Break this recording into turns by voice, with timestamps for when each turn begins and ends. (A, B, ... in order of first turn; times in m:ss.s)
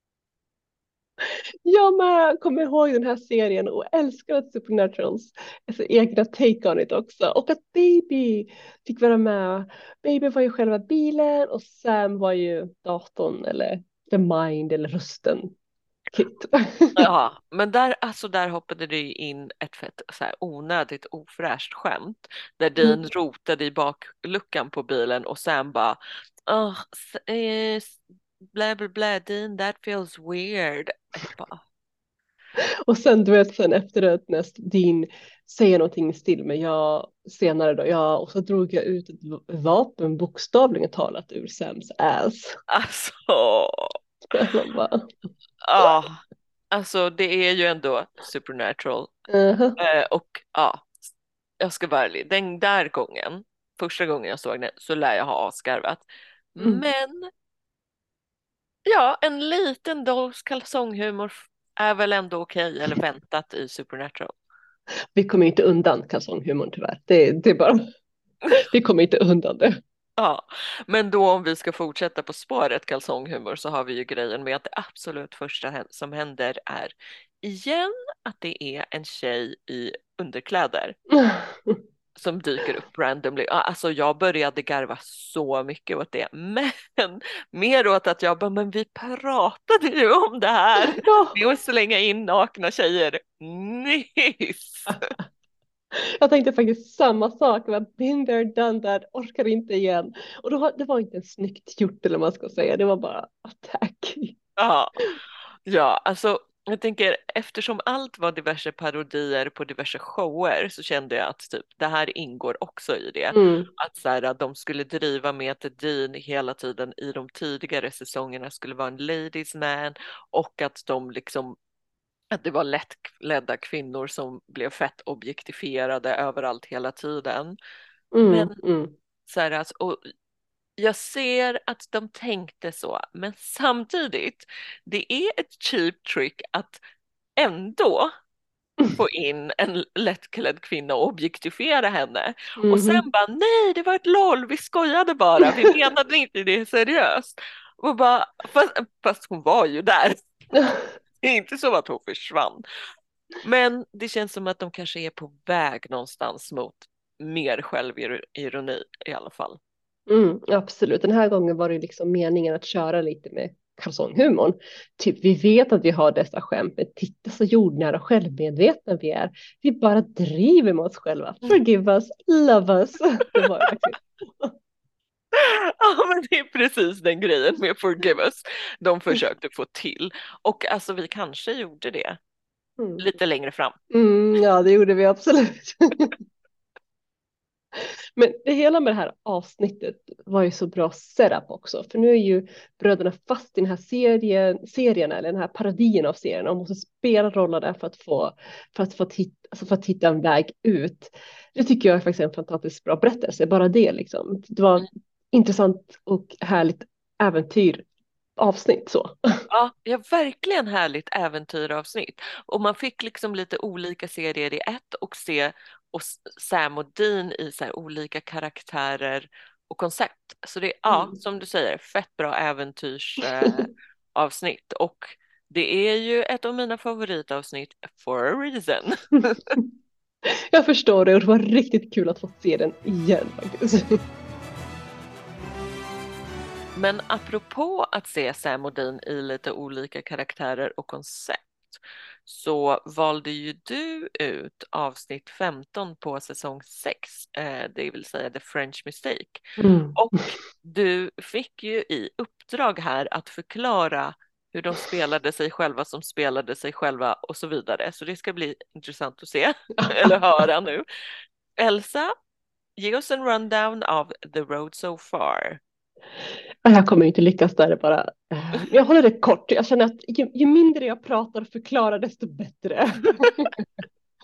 0:01.2-0:15.5 A
0:16.1-0:17.1 A
0:17.0-0:28.0 B
0:28.5-0:31.6 B
0:32.9-0:42.6 A
0:42.7-0:44.0 B
0:44.3-0:45.1 A
0:45.6-0:49.1 B
0:49.3-0:49.8 A
0:49.8-0:51.0 B
0:51.6-0:57.3 B
0:58.8-1:04.3 B
1:05.2-1:07.8 A
1:08.5-1:09.8 A
1:10.2-1:21.0 B
1:21.1-1:21.8 A
1:22.2-1:35.1 B
1:30.9-1:31.3 A
1:34.9-1:35.2 A
1:35.9-1:44.4 A
1:44.6-1:44.9 B
1:45.7-2:01.6 B
1:53.3-1:53.7 A
2:02.3-2:07.6 B
2:08.1-2:08.9 A
2:08.3-2:08.5 B
2:09.2-2:10.0 B
2:10.8-2:16.8 B
2:17.4-2:18.1 B
2:18.9-2:30.2 B
2:22.6-2:23.0 A
2:30.6-2:30.8 A
2:31.2-2:32.6 B
2:33.4-2:39.6 B
2:40.1-2:54.5 A
2:55.3-3:02.2 B
3:02.8-3:03.0 A
3:03.0-3:03.8 B
3:03.9-3:06.2 A
3:07.8-3:27.8 A
3:28.4-3:29.4 A
3:29.5-3:49.6 B
3:40.9-3:41.1 A
3:50.3-3:54.0 A
3:56.8-4:20.8 B
4:09.6-4:10.3 A
4:21.6-4:22.1 B
4:22.8-4:25.6 B
4:26.6-4:33.6 A